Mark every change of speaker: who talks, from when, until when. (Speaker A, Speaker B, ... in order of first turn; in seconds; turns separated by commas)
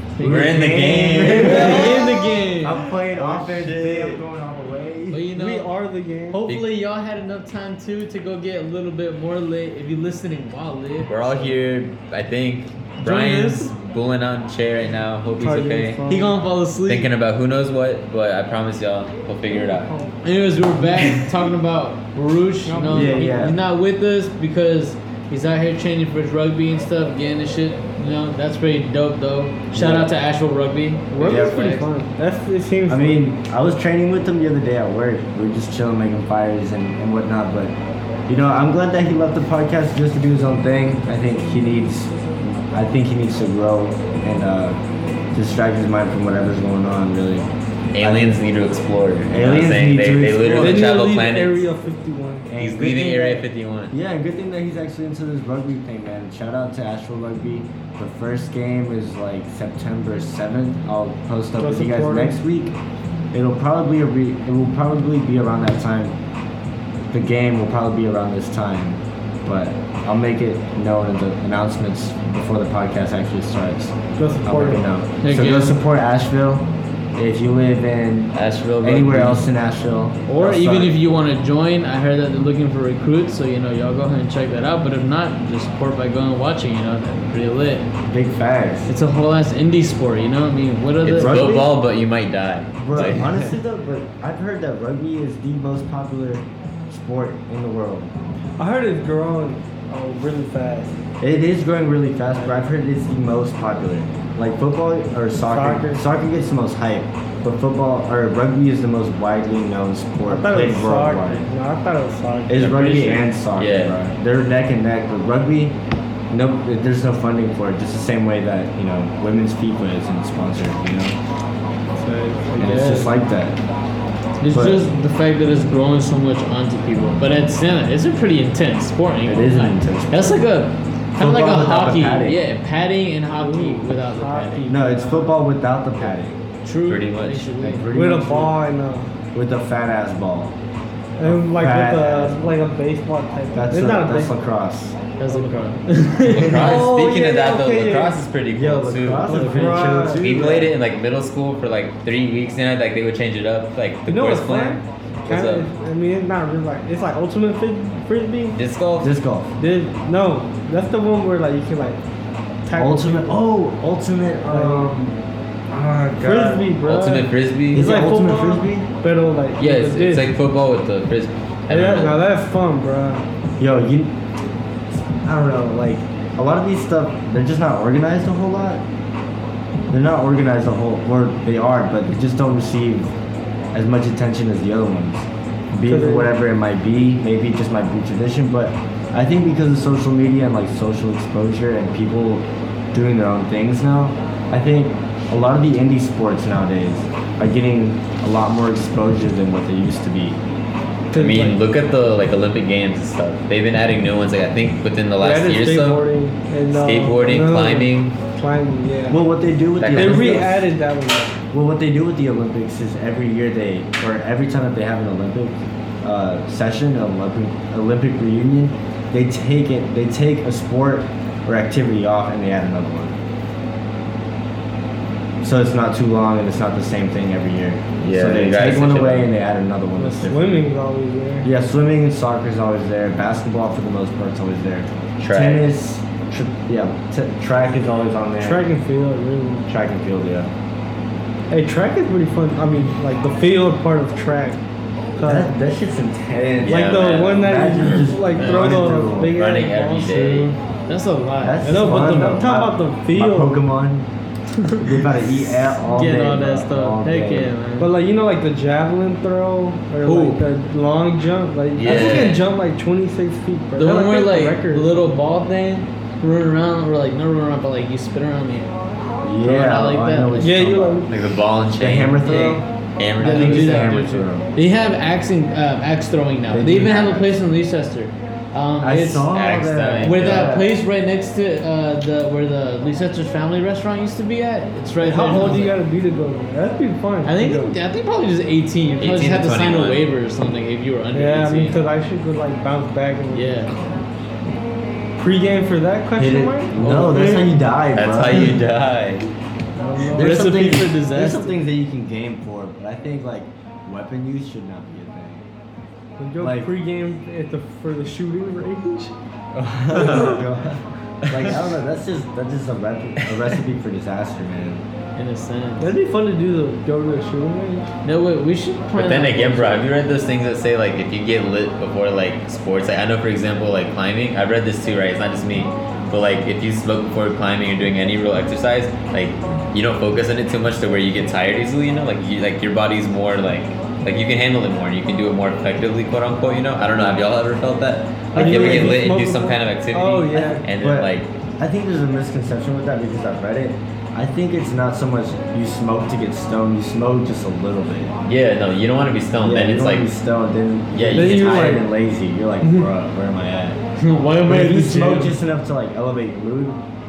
Speaker A: 0.2-2.9, Speaker B: 0.2-1.9, Speaker C: 0.2-5.2, Speaker D: 1.4-2.0, Speaker B: 3.1-4.2, Speaker A: 5.1-5.7, Speaker D: 5.3-6.4, Speaker A: 6.3-11.1, Speaker B: 6.5-6.7, Speaker B: 11.1-16.0, Speaker A: 13.0-13.7, Speaker D: 15.4-16.4, Speaker A: 16.1-17.1, Speaker B: 16.9-19.9, Speaker D: 19.5-20.2, Speaker A: 20.2-31.9, Speaker D: 22.7-23.5, Speaker C: 22.9-23.6, Speaker C: 29.7-30.1, Speaker D: 31.1-33.3, Speaker C: 31.2-31.6, Speaker C: 32.9-37.8, Speaker C: 38.3-42.1, Speaker C: 42.7-44.8, Speaker C: 45.3-48.4, Speaker B: 47.9-51.6, Speaker C: 49.3-50.9, Speaker D: 50.5-52.5, Speaker C: 52.5-53.4, Speaker B: 52.6-53.9, Speaker C: 53.9-62.8, Speaker D: 61.6-62.4, Speaker C: 63.3-66.2, Speaker C: 67.1-81.0, Speaker D: 74.2-74.8, Speaker A: 75.2-75.8, Speaker B: 78.3-79.5, Speaker A: 80.3-87.9, Speaker C: 88.1-88.9, Speaker A: 88.9-91.5, Speaker B: 91.0-93.4, Speaker C: 91.1-91.8, Speaker C: 92.8-98.2, Speaker D: 98.6-101.0, Speaker C: 101.2-111.5, Speaker D: 105.4-106.0, Speaker D: 110.3-112.8, Speaker C: 112.5-115.8, Speaker B: 112.6-114.0, Speaker C: 116.3-121.2, Speaker D: 122.0-122.7, Speaker A: 122.5-123.1, Speaker C: 122.6-123.6, Speaker A: 124.4-134.8, Speaker C: 124.5-124.8, Speaker C: 129.3-130.4, Speaker C: 131.2-132.4, Speaker D: 133.3-135.3, Speaker C: 134.7-136.4, Speaker A: 136.6-137.9, Speaker B: 136.9-137.6, Speaker C: 137.6-138.6, Speaker D: 137.9-139.1, Speaker C: 139.3-140.6, Speaker D: 141.2-144.3, Speaker C: 141.2-142.4, Speaker C: 143.5-145.0, Speaker A: 145.2-146.8, Speaker D: 145.3-145.6, Speaker B: 146.3-155.7, Speaker D: 146.5-148.2, Speaker C: 148.5-150.7, Speaker D: 149.2-150.7, Speaker D: 154.1-158.6, Speaker B: 158.5-159.1, Speaker C: 159.0-159.5, Speaker D: 159.6-162.0, Speaker D: 162.7-163.4, Speaker C: 162.8-165.2, Speaker D: 164.5-165.1, Speaker C: 165.7-166.7, Speaker D: 166.2-170.3, Speaker B: 166.8-167.9, Speaker C: 167.7-168.9, Speaker B: 169.6-172.2, Speaker D: 171.7-173.2, Speaker C: 173.6-174.2, Speaker C: 174.9-178.8, Speaker C: 179.9-183.1, Speaker C: 183.7-200.4, Speaker D: 185.9-186.3, Speaker D: 201.1-201.6, Speaker B: 201.1-206.1, Speaker D: 205.2-209.2, Speaker B: 206.7-208.2, Speaker C: 209.1-210.7, Speaker B: 209.8-210.6, Speaker D: 209.9-211.4, Speaker C: 211.5-223.2, Speaker C: 225.4-230.7, Speaker B: 228.0-229.3, Speaker D: 230.0-231.5, Speaker C: 231.4-238.6, Speaker B: 235.2-235.7, Speaker D: 238.4-239.7, Speaker C: 239.7-240.5, Speaker D: 241.5-244.6, Speaker D: 245.2-245.5, Speaker C: 245.2-249.4, Speaker B: 246.6-250.6, Speaker D: 246.7-250.6, Speaker A: 248.4-248.7, Speaker A: 250.9-252.1, Speaker C: 251.4-254.1, Speaker D: 251.7-253.6, Speaker C: 254.8-257.5, Speaker A: 255.8-257.9, Speaker D: 257.8-264.9, Speaker A: 260.0-260.4, Speaker B: 261.8-262.5, Speaker A: 263.8-268.7, Speaker C: 269.2-271.1, Speaker A: 269.4-270.7, Speaker D: 270.4-271.1, Speaker B: 271.1-274.0, Speaker C: 271.7-272.6, Speaker D: 272.3-272.6, Speaker C: 273.2-274.5, Speaker A: 273.2-279.3, Speaker C: 276.5-277.4, Speaker C: 278.8-280.8, Speaker B: 279.3-280.6, Speaker A: 280.0-285.8, Speaker D: 285.0-287.8, Speaker A: 287.2-291.8, Speaker B: 289.0-290.1, Speaker D: 291.1-293.9, Speaker A: 293.3-293.7, Speaker D: 295.2-297.5, Speaker C: 296.2-298.6, Speaker B: 297.9-299.3, Speaker D: 299.8-300.4, Speaker C: 300.1-305.5, Speaker A: 300.1-301.5, Speaker D: 306.2-309.1, Speaker C: 306.4-306.7, Speaker C: 309.6-314.9, Speaker B: 309.9-310.4, Speaker D: 310.0-310.4, Speaker B: 311.3-311.6, Speaker A: 315.2-315.9, Speaker D: 315.8-317.9, Speaker A: 318.0-319.9, Speaker B: 318.9-341.3, Speaker D: 338.3-340.6, Speaker C: 338.4-339.0, Speaker C: 340.4-348.2, Speaker B: 348.3-350.1, Speaker C: 349.4-353.8, Speaker B: 350.9-351.8, Speaker D: 351.1-351.9, Speaker A: 354.0-355.4, Speaker C: 354.4-356.8